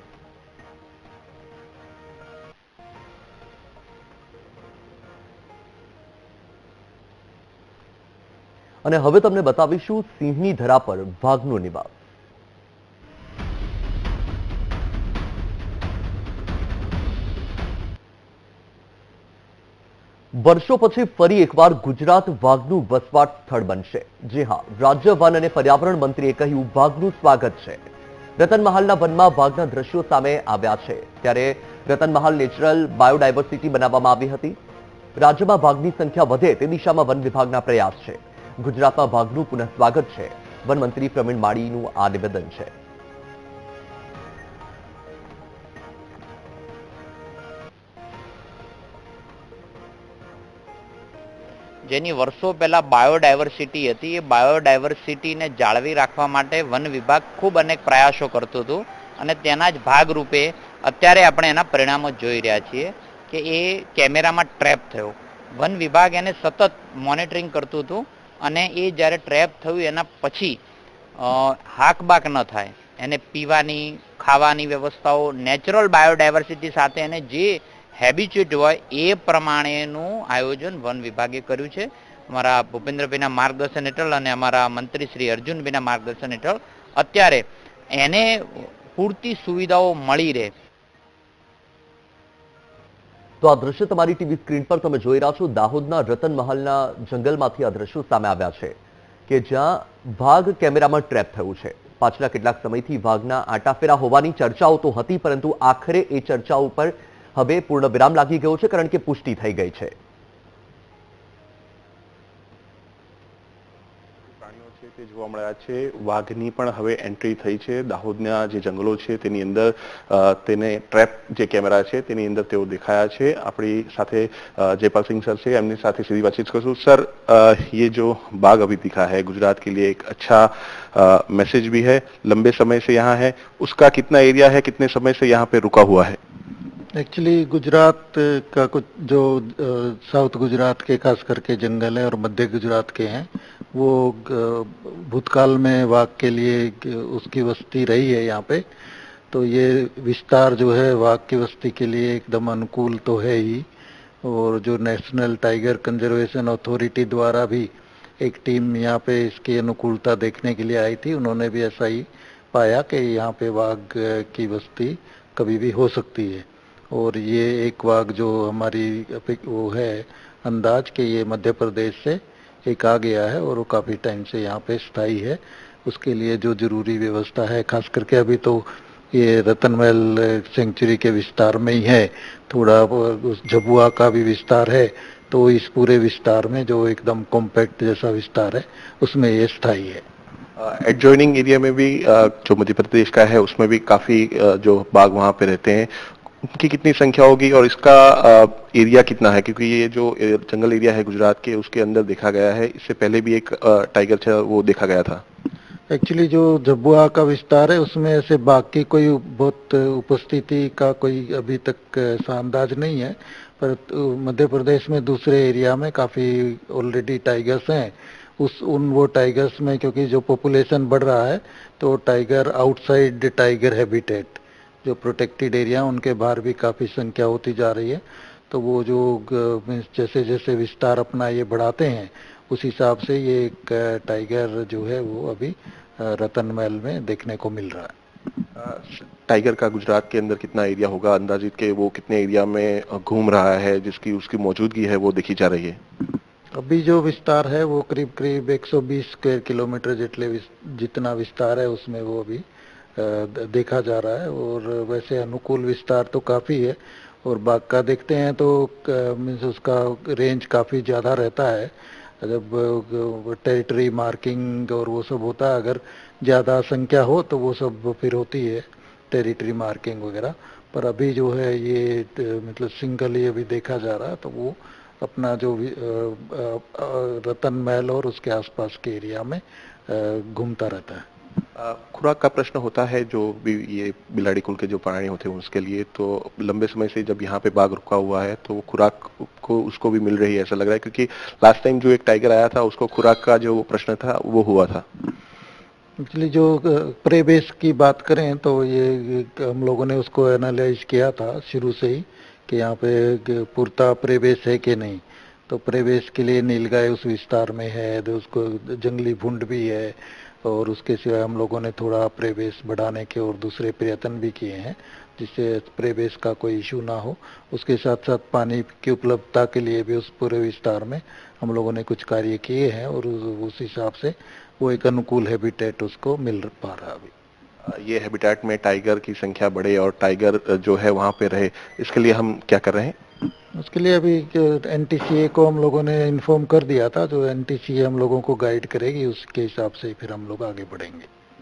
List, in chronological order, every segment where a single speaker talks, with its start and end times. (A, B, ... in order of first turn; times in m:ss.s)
0:08.8-0:11.9 A
0:20.3-0:27.8 A
0:28.4-0:34.6 A
0:35.2-0:42.7 A
0:51.9-1:10.6 B
1:11.2-1:30.5 B
1:33.4-1:38.8 A
1:39.3-1:49.9 A
1:54.4-2:16.2 C
2:16.9-2:28.7 D
2:29.3-2:33.7 D
2:34.2-3:10.0 D
3:10.6-3:25.2 C
3:25.9-3:58.0 D
3:58.6-4:05.8 C
4:06.6-4:12.4 D
4:13.0-4:41.1 D
4:41.6-4:54.9 C
4:56.0-5:27.1 D
5:27.6-5:33.0 C
5:33.6-5:41.1 D